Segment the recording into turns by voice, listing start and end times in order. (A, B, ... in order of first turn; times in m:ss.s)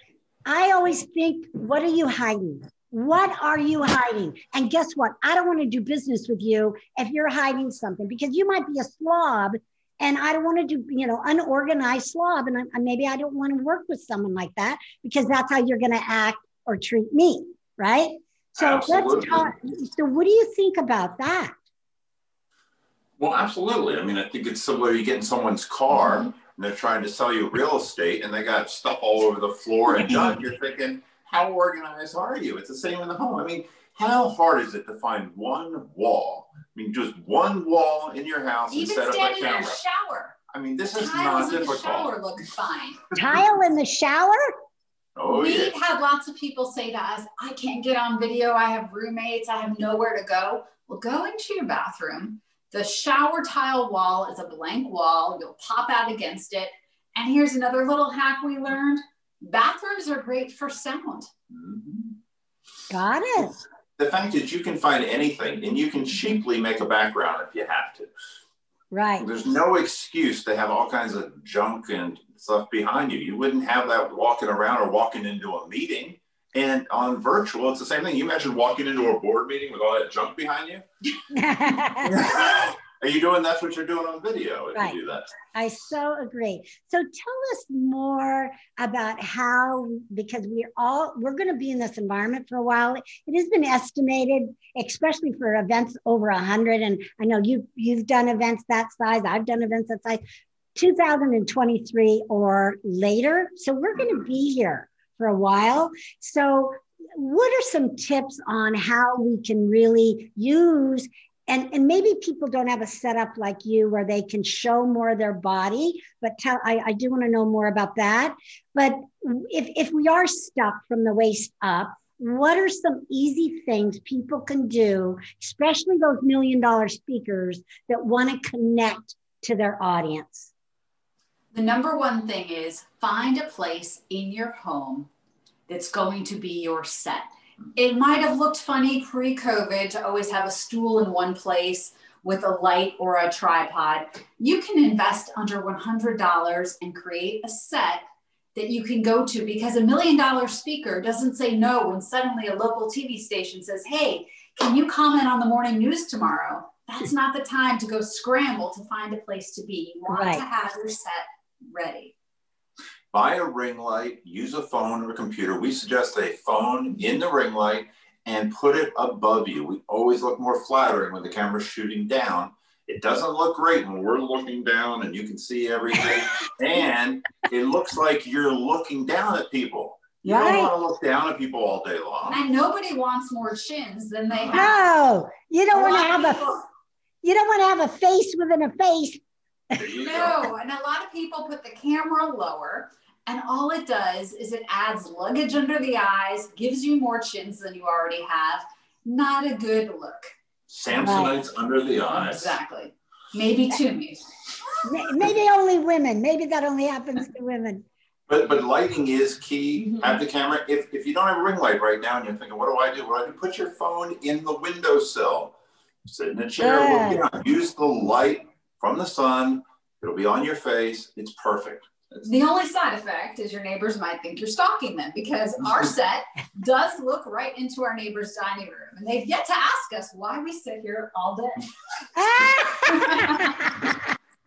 0:00.5-0:21.6 A
0:18.6-0:19.5 B
0:23.2-0:39.8 B
0:38.7-0:40.4 C
0:40.5-0:42.1 B
0:40.9-0:43.0 C
0:43.2-0:44.4 A
0:45.2-0:45.7 B
0:45.3-1:01.3 C
1:01.5-1:02.1 B
1:02.9-1:03.6 A
1:04.0-1:08.1 B
1:08.9-1:09.3 A
1:09.2-1:20.8 B
1:21.3-1:22.2 A
1:22.0-1:25.4 B
1:25.5-1:40.2 A
1:40.8-2:10.5 A
2:11.5-2:15.1 C
2:15.7-2:28.0 C
2:28.6-2:42.1 C
2:40.1-2:40.4 A
2:43.1-3:02.4 B
3:00.2-3:00.7 A
3:00.3-3:00.6 C
3:02.2-3:04.8 C
3:04.3-3:04.7 B
3:04.5-3:06.6 A
3:05.7-3:06.6 C
3:07.2-3:09.2 A
3:09.8-3:10.5 B
3:10.0-3:20.3 C
3:20.7-3:22.6 B
3:21.0-3:21.4 A
3:22.1-3:24.2 C
3:24.8-3:27.8 A
3:28.3-3:35.5 B
3:36.1-3:42.3 B
3:36.6-3:37.2 A
3:42.2-3:51.7 C
3:52.2-3:53.5 A
3:52.9-3:53.6 C